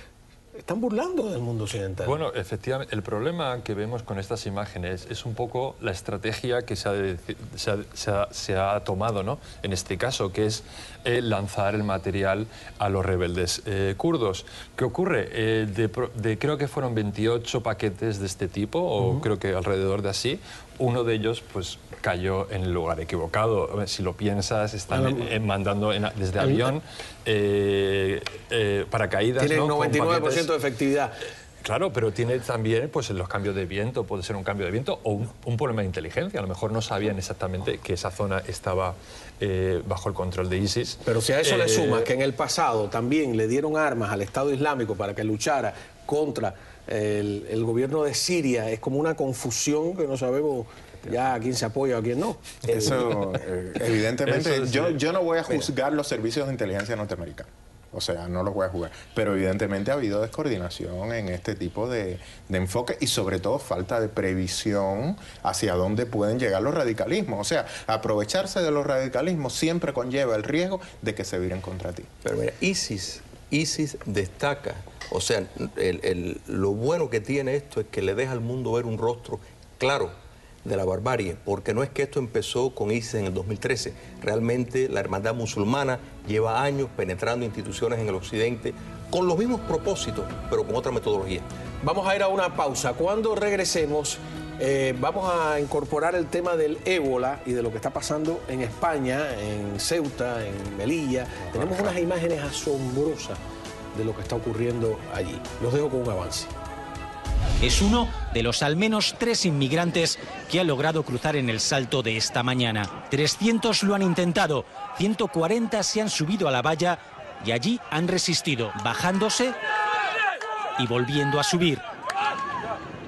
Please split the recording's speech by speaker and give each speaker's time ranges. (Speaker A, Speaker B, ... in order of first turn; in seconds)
Speaker A: 0.6-2.2, 24.9-25.2, 26.4-26.7, 29.4-31.1, 41.0-53.0, 91.8-103.4, 103.9-106.5
Speaker B: 2.0-30.5, 31.6-42.1, 54.2-55.0
Speaker C: 52.7-72.1
Speaker D: 72.2-80.1, 80.6-91.5
Speaker E: 107.6-119.5, 120.8-121.8